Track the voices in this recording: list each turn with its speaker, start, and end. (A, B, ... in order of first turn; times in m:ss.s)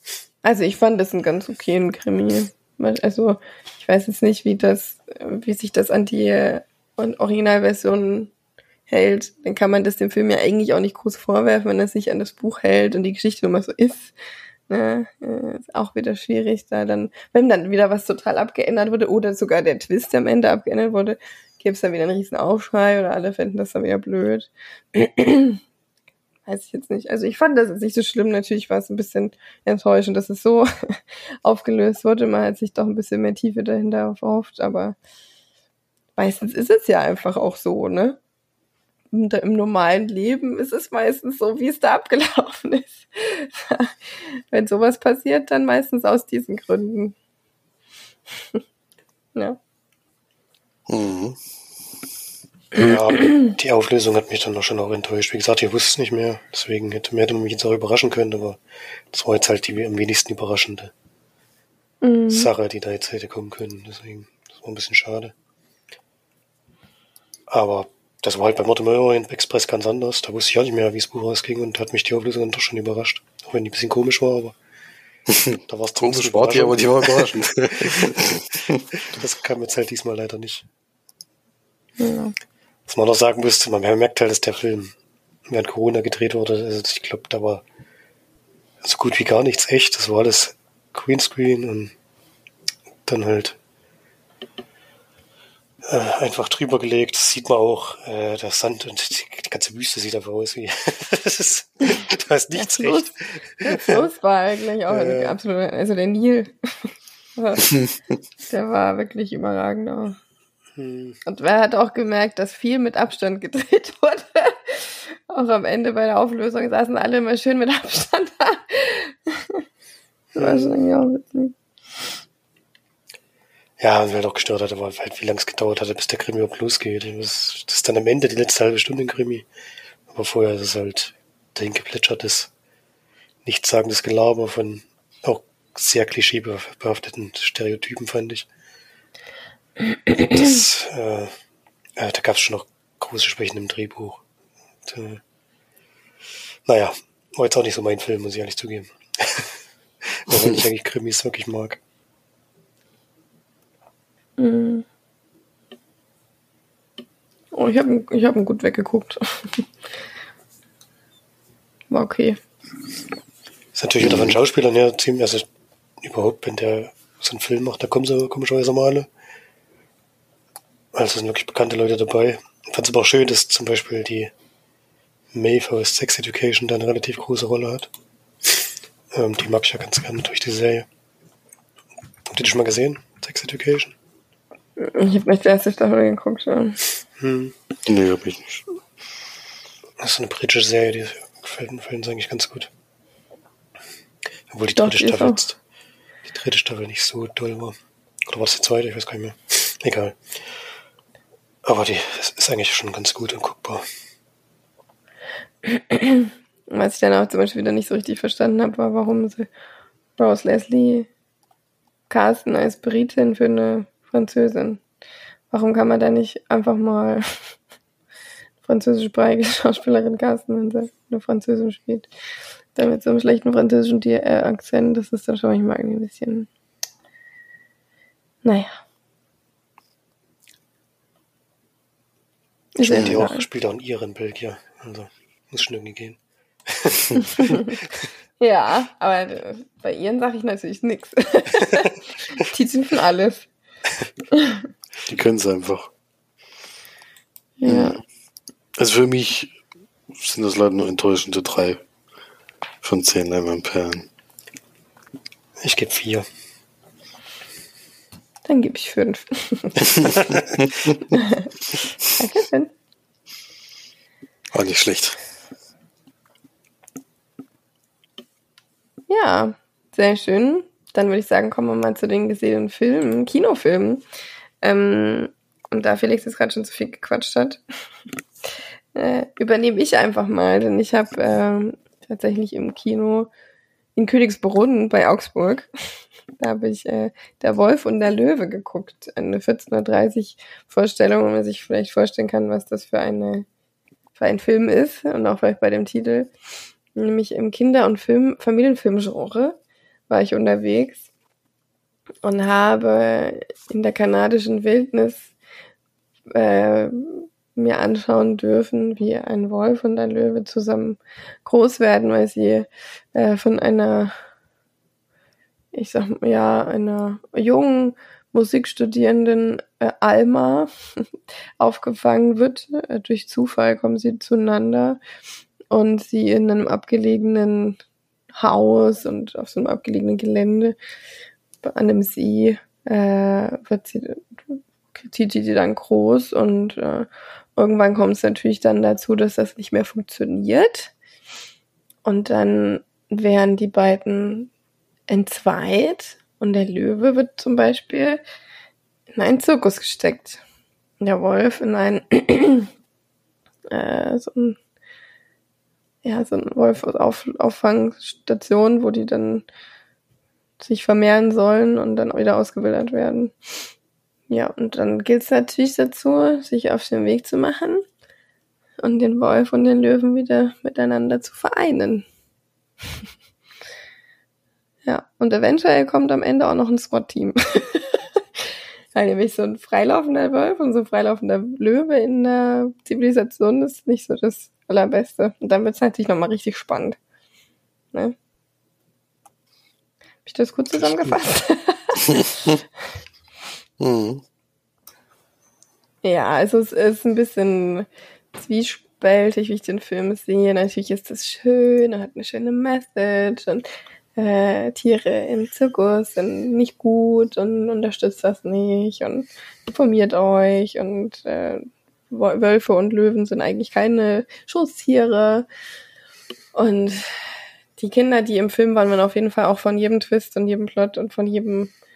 0:00.4-0:08.3 A
0:08.9-0:14.1 A
0:14.7-0:25.6 A
0:26.4-0:35.0 A
0:36.2-0:38.2 A
0:39.1-0:47.1 A
0:50.9-0:51.4 B
0:52.8-1:00.9 C
1:02.0-1:02.5 A
1:02.3-1:05.3 C
1:07.5-1:14.6 C
1:15.3-1:18.8 B
1:15.7-1:20.6 C
1:22.0-1:22.3 A
1:22.9-1:24.9 C
1:25.5-1:27.6 C
1:28.8-1:31.9 C
1:33.0-1:33.6 C
1:35.8-1:44.0 C
1:42.5-1:47.7 A
1:44.9-1:45.4 C
1:48.5-1:50.2 A
1:50.7-1:51.2 C
1:51.2-1:59.6 A
2:00.3-2:01.5 A
2:00.4-2:00.8 C
2:03.8-2:09.4 C
2:10.1-2:12.5 C
2:13.4-2:18.5 C
2:20.3-2:21.3 C
2:22.0-2:24.2 C
2:24.8-2:25.2 C
2:26.6-2:31.8 C
2:34.4-2:34.8 A
2:37.5-2:39.6 A
2:41.9-2:42.4 A
2:43.7-2:45.5 C
2:44.0-2:44.3 B
2:46.0-2:49.1 C
2:50.9-2:54.3 C
2:55.3-2:57.9 C
2:59.1-3:00.9 C
3:02.3-3:03.9 C
3:04.8-3:06.8 A
3:07.2-3:07.6 C
3:07.8-3:08.6 B
3:10.0-3:12.7 C
3:14.5-3:15.6 C
3:14.8-3:15.4 A
3:16.2-3:17.8 C
3:18.3-3:20.2 C
3:21.6-3:23.8 C
3:25.6-3:29.5 A
3:30.2-3:31.1 A
3:32.1-3:34.8 A
3:35.5-3:37.3 A
3:38.6-3:42.1 A
3:42.7-3:46.5 A
3:48.4-3:48.8 A
3:52.8-3:53.4 A
3:52.8-3:57.8 C
3:58.4-4:03.5 A
4:04.3-4:04.6 A
4:05.1-4:05.9 B
4:07.6-4:08.0 A
4:07.7-4:07.9 B
4:08.8-4:09.5 B
4:10.1-4:11.8 B
4:12.8-4:14.1 B
4:15.6-4:16.2 C
4:18.4-4:20.1 A
4:21.1-4:21.5 A
4:22.1-4:22.7 A
4:24.5-4:25.2 B
4:29.1-4:34.0 A
4:34.6-4:37.6 A
4:38.9-4:43.3 A
4:44.0-4:45.7 A
4:46.4-4:53.4 A
4:54.2-4:56.3 A
4:56.9-4:59.6 A
5:00.1-5:01.0 A
5:02.2-5:05.3 A
5:06.3-5:14.1 A
5:15.7-5:20.7 A
5:21.6-5:25.0 A
5:25.7-5:27.8 A
5:28.3-5:30.8 A
5:31.6-5:40.9 A
5:42.0-5:44.5 A
5:45.1-5:48.2 A
5:49.1-5:50.4 A
5:51.0-5:52.7 A
5:53.7-5:54.6 A
5:56.0-5:59.4 A
6:00.6-6:03.3 A
6:04.3-6:07.8 A
6:08.8-6:12.0 A
6:14.8-6:18.0 A
6:18.9-6:27.0 A
6:30.2-6:32.2 A
6:30.8-6:31.1 B
6:33.8-6:34.2 B
6:36.0-6:55.4 A
6:56.5-6:57.2 A
6:57.8-7:01.7 A